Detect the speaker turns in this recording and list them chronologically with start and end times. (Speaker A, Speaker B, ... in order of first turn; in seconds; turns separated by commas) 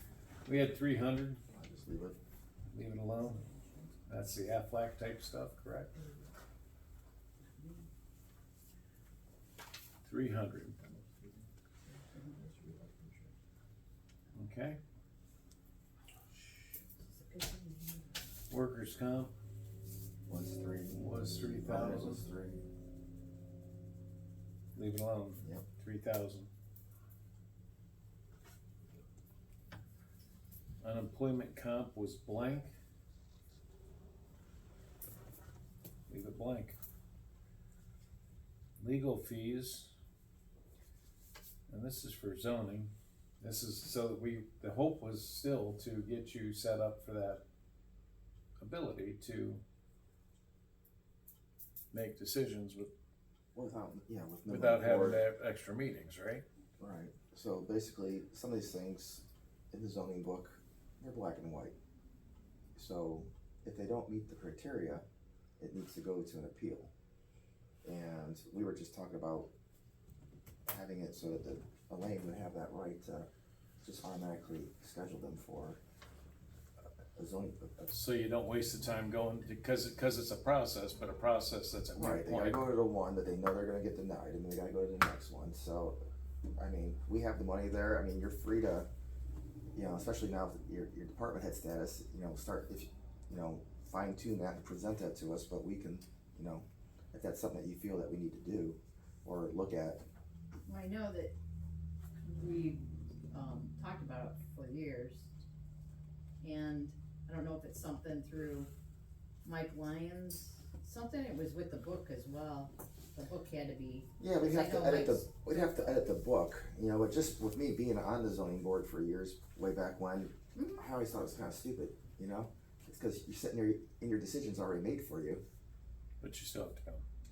Speaker A: 0.5-1.4, Speaker B: 1.5-2.2, Speaker A: 2.7-3.4, Speaker C: 3.2-4.0, Speaker A: 4.1-5.9, Speaker C: 7.5-7.9, Speaker A: 10.0-10.8, Speaker C: 11.0-11.4, Speaker C: 12.1-13.3, Speaker A: 14.3-14.8, Speaker C: 16.6-18.1, Speaker A: 18.5-19.3, Speaker B: 20.3-22.7, Speaker A: 21.0-22.2, Speaker A: 24.8-26.5, Speaker A: 30.8-32.7, Speaker A: 36.1-36.8, Speaker A: 38.8-39.9, Speaker A: 41.7-47.4, Speaker A: 48.6-49.6, Speaker A: 51.9-52.9, Speaker B: 53.5-55.2, Speaker A: 54.5-56.4, Speaker B: 56.8-61.8, Speaker B: 62.8-65.0, Speaker B: 65.6-66.9, Speaker B: 67.8-69.5, Speaker B: 70.7-73.3, Speaker B: 73.8-75.8, Speaker B: 77.2-77.9, Speaker A: 77.9-82.7, Speaker B: 82.0-86.0, Speaker B: 86.6-88.9, Speaker B: 89.7-100.0, Speaker C: 100.7-101.3, Speaker C: 102.2-105.3, Speaker C: 106.4-108.7, Speaker C: 109.4-115.2, Speaker B: 114.2-125.4, Speaker C: 120.5-120.8, Speaker A: 126.2-127.0